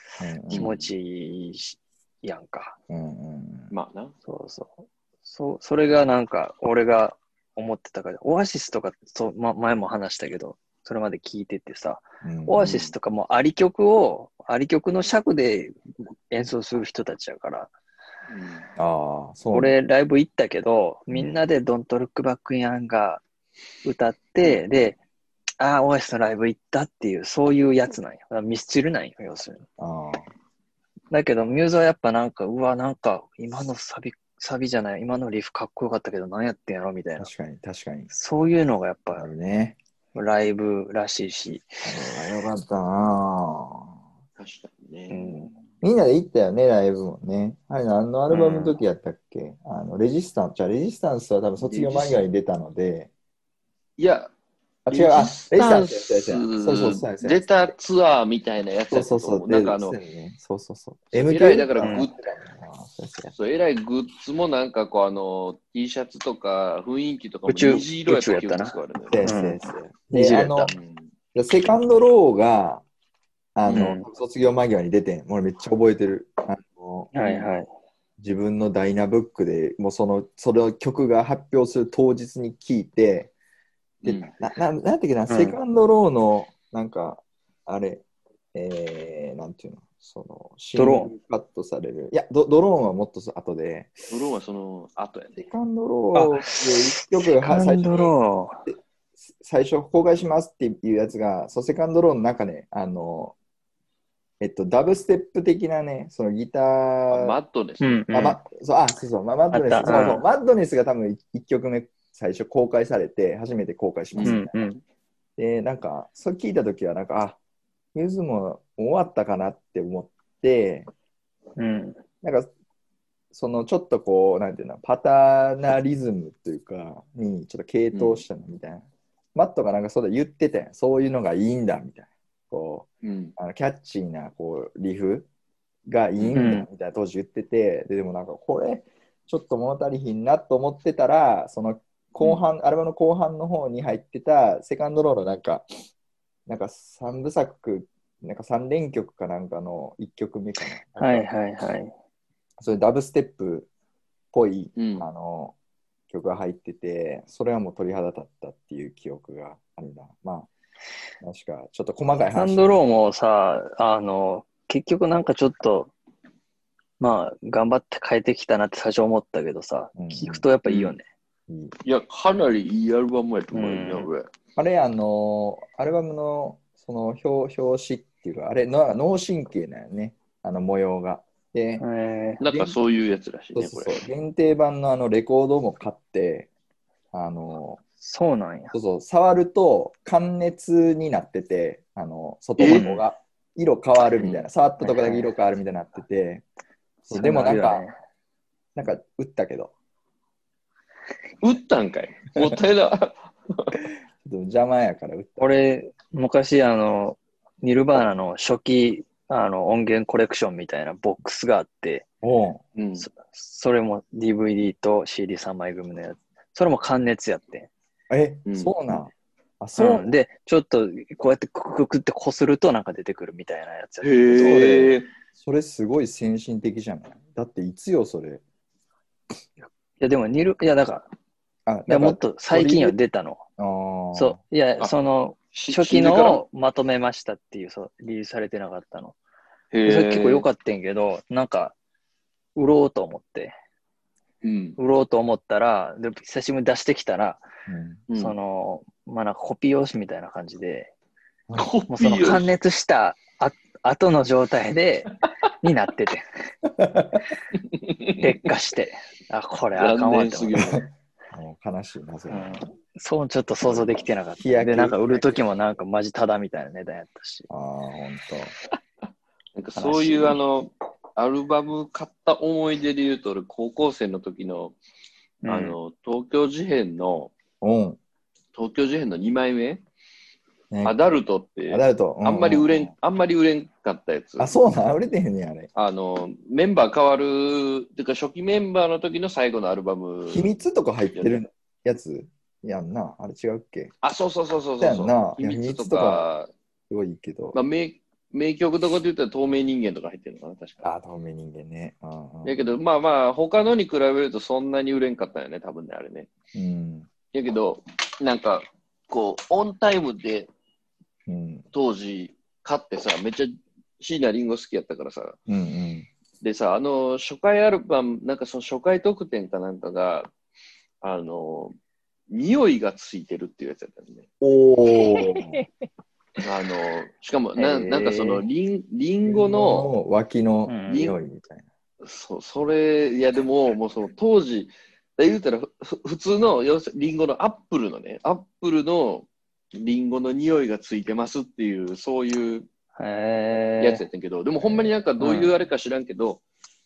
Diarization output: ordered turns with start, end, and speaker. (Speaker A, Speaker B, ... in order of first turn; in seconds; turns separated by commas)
Speaker A: 0.2-0.7, Speaker B: 0.5-0.9, Speaker C: 0.5-2.8, Speaker A: 2.9-3.7, Speaker B: 3.7-4.2, Speaker C: 4.2-17.7, Speaker A: 12.2-12.7, Speaker B: 12.6-12.9, Speaker B: 18.3-18.7, Speaker A: 18.8-19.8, Speaker C: 19.5-23.2, Speaker C: 23.9-25.0, Speaker B: 24.4-24.7, Speaker C: 25.6-29.6, Speaker A: 29.8-30.3, Speaker C: 31.1-37.3, Speaker A: 37.2-38.1, Speaker C: 38.1-39.3, Speaker A: 39.1-39.8, Speaker C: 40.1-41.7, Speaker A: 41.8-43.9, Speaker B: 44.4-45.5, Speaker C: 45.1-45.5, Speaker A: 45.8-53.1, Speaker C: 48.3-48.8, Speaker B: 51.6-52.2, Speaker B: 54.0-54.3, Speaker A: 54.9-57.6, Speaker B: 54.9-60.0, Speaker A: 58.9-63.3, Speaker B: 61.1-62.1, Speaker C: 61.8-62.1, Speaker B: 63.4-69.3, Speaker C: 67.5-69.6, Speaker A: 69.1-70.7, Speaker C: 70.1-70.7, Speaker B: 70.6-71.1, Speaker A: 71.3-72.8, Speaker A: 73.5-77.1, Speaker C: 73.7-74.1, Speaker C: 77.1-77.7, Speaker B: 77.2-77.5, Speaker A: 78.2-83.3, Speaker B: 84.0-84.3, Speaker A: 84.0-94.1, Speaker C: 85.3-85.6, Speaker C: 90.8-91.1, Speaker B: 94.1-95.4, Speaker A: 95.4-98.1, Speaker C: 96.1-96.8, Speaker C: 97.3-98.7, Speaker A: 99.3-103.4, Speaker A: 104.4-107.4, Speaker B: 107.1-108.0, Speaker C: 107.8-108.4, Speaker A: 108.1-114.7, Speaker C: 109.5-110.2, Speaker B: 114.1-114.4, Speaker C: 114.2-114.8, Speaker A: 115.4-117.4, Speaker A: 118.0-120.9, Speaker C: 121.6-122.0, Speaker A: 122.2-122.5, Speaker A: 123.3-135.3, Speaker B: 127.9-128.2, Speaker B: 133.0-133.3, Speaker A: 135.9-145.7, Speaker B: 136.2-136.5, Speaker C: 136.3-136.7, Speaker B: 142.2-142.4, Speaker A: 146.5-151.3, Speaker C: 151.0-151.9, Speaker A: 152.6-153.7, Speaker A: 154.3-155.6, Speaker B: 154.8-155.1, Speaker A: 156.1-160.5, Speaker A: 161.2-162.8, Speaker C: 162.3-165.9, Speaker C: 167.0-171.0, Speaker A: 169.9-170.5, Speaker B: 170.7-171.0, Speaker A: 171.5-171.8, Speaker B: 171.8-174.3, Speaker C: 173.5-174.1, Speaker A: 174.6-181.8, Speaker C: 181.8-182.4, Speaker B: 182.4-184.0, Speaker A: 182.4-182.8, Speaker A: 183.6-186.5, Speaker A: 187.1-187.8, Speaker C: 188.0-188.7, Speaker A: 188.7-196.4, Speaker B: 192.6-193.0, Speaker B: 194.2-194.5, Speaker C: 194.8-195.3, Speaker A: 197.1-197.8, Speaker C: 197.2-197.9, Speaker A: 198.8-199.7, Speaker B: 201.4-203.8, Speaker A: 204.2-205.4, Speaker C: 205.4-212.1, Speaker A: 212.2-212.6, Speaker B: 212.8-213.1, Speaker C: 213.0-217.7, Speaker A: 218.1-220.1, Speaker B: 218.5-218.7, Speaker C: 219.8-225.0, Speaker B: 224.0-225.1, Speaker A: 224.3-224.7, Speaker A: 225.4-228.4, Speaker C: 229.6-231.1, Speaker A: 231.7-233.0, Speaker C: 231.9-233.4, Speaker A: 233.6-234.4, Speaker C: 234.1-239.2, Speaker B: 235.5-236.4, Speaker B: 239.7-240.5, Speaker C: 239.8-241.7, Speaker C: 242.6-243.5, Speaker B: 244.4-244.8, Speaker C: 244.8-247.4, Speaker A: 247.7-248.0, Speaker B: 248.1-248.3, Speaker C: 248.2-250.9, Speaker B: 251.6-252.5, Speaker C: 251.9-256.2, Speaker A: 256.7-257.3, Speaker B: 257.5-258.4, Speaker C: 258.2-260.7, Speaker B: 259.8-260.9, Speaker A: 260.6-260.8, Speaker A: 261.3-262.7, Speaker C: 262.3-267.5, Speaker A: 263.6-265.4, Speaker A: 267.5-268.5, Speaker B: 269.6-274.8, Speaker C: 269.8-270.4, Speaker C: 275.4-275.8, Speaker B: 275.5-277.3, Speaker A: 277.6-278.0, Speaker B: 278.5-279.8, Speaker A: 280.7-281.0, Speaker B: 280.8-284.5, Speaker A: 281.7-282.9, Speaker A: 284.4-285.7, Speaker B: 285.8-290.5, Speaker A: 290.3-293.9, Speaker B: 291.1-291.4, Speaker B: 294.0-296.5, Speaker A: 294.8-296.3, Speaker A: 296.9-297.6, Speaker B: 297.5-300.9, Speaker A: 300.8-302.7, Speaker B: 302.4-306.3, Speaker A: 306.5-307.1, Speaker B: 307.3-310.5, Speaker A: 311.3-311.7, Speaker B: 311.7-315.4, Speaker A: 315.5-316.1, Speaker B: 316.4-320.3, Speaker B: 321.0-321.7, Speaker B: 322.3-324.3, Speaker A: 324.4-325.6, Speaker C: 325.2-325.6, Speaker B: 326.4-329.9, Speaker C: 327.6-328.4, Speaker A: 329.2-331.7, Speaker C: 330.6-331.1, Speaker B: 330.9-331.1, Speaker B: 332.0-342.7, Speaker C: 343.0-344.0, Speaker B: 343.8-346.4, Speaker C: 345.2-345.6